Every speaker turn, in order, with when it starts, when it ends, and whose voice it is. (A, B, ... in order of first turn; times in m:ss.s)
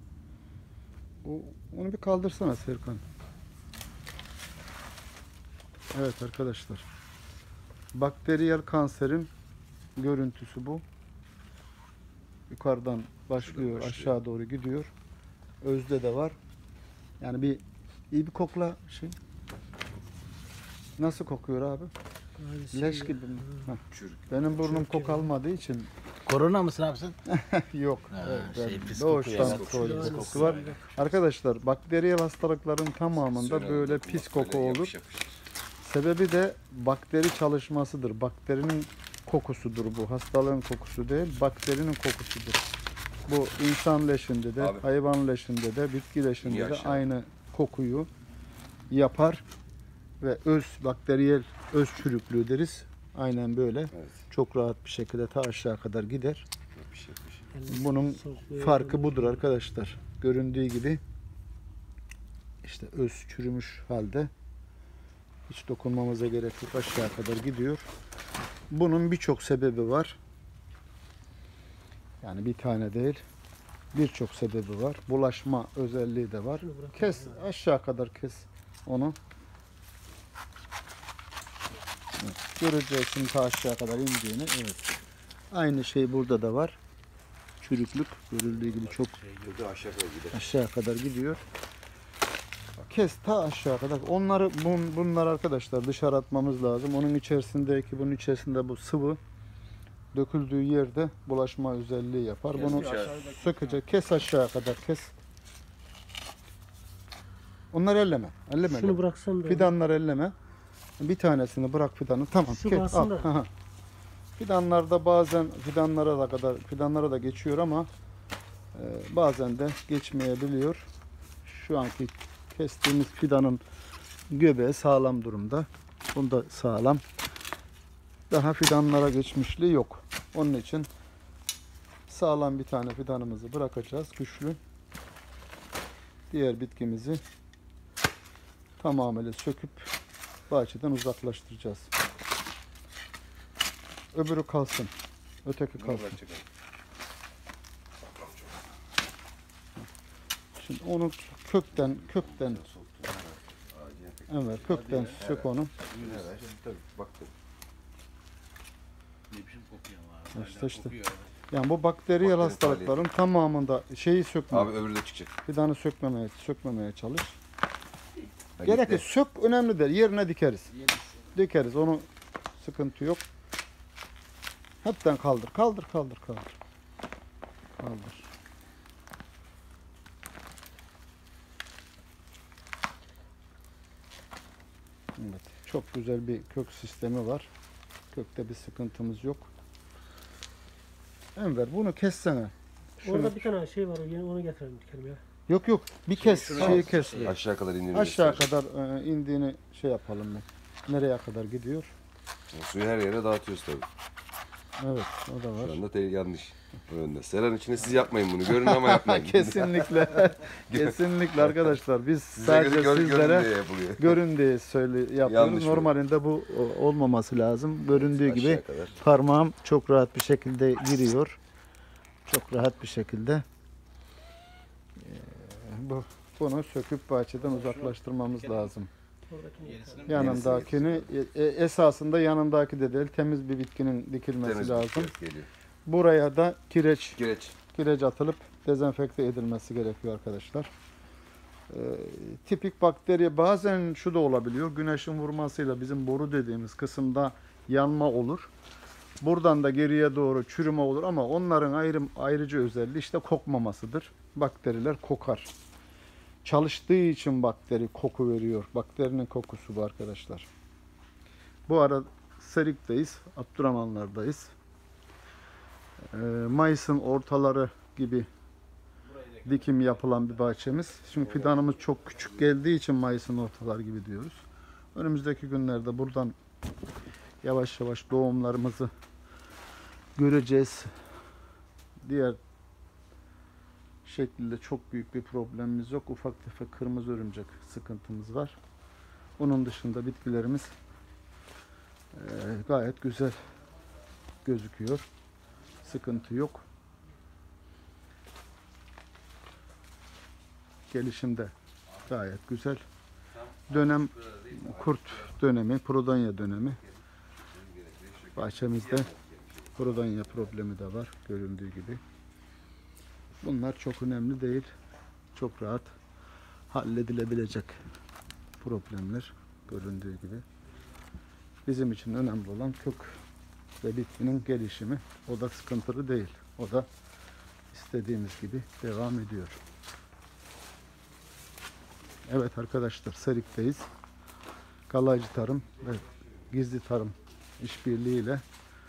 0:01.2-0:03.0 A
0:05.9-0:06.8 A
0:07.9-0:09.3 A
0:10.0-0:10.8 A
0:12.5-0:14.9 A
0:13.4-0:14.2 B
0:15.6-0:16.4 A
0:17.2-0:19.2 A
0:21.0-0:21.9 A
0:22.4-0:23.8 C
0:22.7-0:25.9 A
0:23.9-0:24.6 B
0:24.6-0:25.3 C
0:26.2-0:27.2 D
0:27.3-0:34.9 A
0:28.1-0:30.7 D
0:29.4-0:30.8 B
0:29.4-0:30.9 C
0:33.2-0:35.3 B
0:35.8-0:42.6 A
0:43.3-0:48.1 A
0:44.6-0:44.9 B
0:46.4-0:47.0 B
0:48.9-0:49.4 A
0:50.2-0:56.4 A
0:53.9-0:54.2 B
0:56.8-0:57.5 B
0:57.5-0:59.4 C
0:57.7-1:01.0 A
1:02.6-1:04.3 A
1:05.5-1:07.9 A
1:08.7-1:10.2 A
1:12.2-1:13.2 A
1:13.9-1:19.2 A
1:16.6-1:17.5 C
1:22.2-1:25.0 A
1:25.5-1:26.8 A
1:27.6-1:29.2 A
1:28.7-1:29.4 D
1:29.4-1:30.6 B
1:30.3-1:31.4 A
1:32.8-1:39.2 A
1:40.1-1:45.1 A
1:42.6-1:43.2 B
1:42.6-1:43.7 D
1:47.7-1:50.3 A
1:48.6-1:49.7 C
1:51.0-1:53.5 A
1:52.5-1:53.3 C
1:54.4-1:57.9 A
1:58.7-2:00.9 A
2:01.4-2:03.6 A
2:04.3-2:07.0 A
2:08.3-2:10.9 A
2:12.1-2:14.6 A
2:16.3-2:17.2 A
2:18.8-2:19.9 A
2:20.5-2:21.9 A
2:24.1-2:24.9 A
2:25.4-2:26.2 A
2:25.8-2:26.4 B
2:30.5-2:32.6 A
2:31.8-2:37.3 B
2:34.3-2:35.7 A
2:34.7-2:35.3 D
2:35.9-2:36.3 D
2:39.3-2:41.3 D
2:40.3-2:41.0 A
2:41.5-2:44.8 A
2:42.2-2:43.0 B
2:44.5-2:45.3 B
2:45.4-2:47.4 A
2:48.6-2:49.0 B
2:48.6-2:50.7 A
2:51.3-2:53.2 A
2:54.8-2:56.6 A
2:57.8-2:58.3 A
3:05.2-3:07.5 A
3:08.1-3:09.5 A
3:11.4-3:13.5 A
3:13.0-3:15.2 C
3:15.5-3:17.4 A
3:16.2-3:17.4 D
3:16.6-3:18.5 B
3:17.9-3:21.9 A
3:22.5-3:23.9 B
3:24.8-3:25.8 A
3:25.6-3:30.0 B
3:28.5-3:41.4 A
3:30.7-3:31.0 B
3:32.3-3:34.2 B
3:35.2-3:35.9 B
3:38.0-3:39.0 B
3:42.2-3:43.4 A
3:45.0-3:48.9 A
3:47.6-3:47.9 D
3:49.3-3:50.4 C
3:49.6-3:50.9 D
3:50.1-3:55.1 A
3:50.1-3:50.8 B
3:54.4-3:55.5 B
3:55.8-3:57.2 A
3:57.2-3:57.6 B
3:57.7-4:00.7 A
4:01.7-4:08.5 A
4:09.2-4:15.5 A
4:16.4-4:20.5 A
4:21.7-4:24.5 A
4:26.1-4:28.3 A
4:29.4-4:34.4 A
4:34.9-4:36.3 A
4:37.4-4:38.9 A
4:40.2-4:40.9 A
4:42.0-4:42.4 A
4:44.0-4:48.6 A
4:49.4-4:50.7 A
4:52.1-4:53.4 A
4:54.4-4:55.0 A
4:55.8-4:56.6 A
5:00.9-5:01.5 A
5:02.0-5:02.8 A
5:03.3-5:05.3 B
5:03.7-5:06.8 A
5:07.5-5:09.8 B
5:08.4-5:09.1 A
5:09.8-5:12.0 A
5:13.4-5:14.7 A
5:15.3-5:15.9 A
5:16.7-5:17.8 A
5:18.6-5:20.4 A
5:21.6-5:23.2 A
5:23.8-5:26.9 A
5:27.7-5:29.6 A
5:32.3-5:33.9 A
5:34.9-5:38.4 A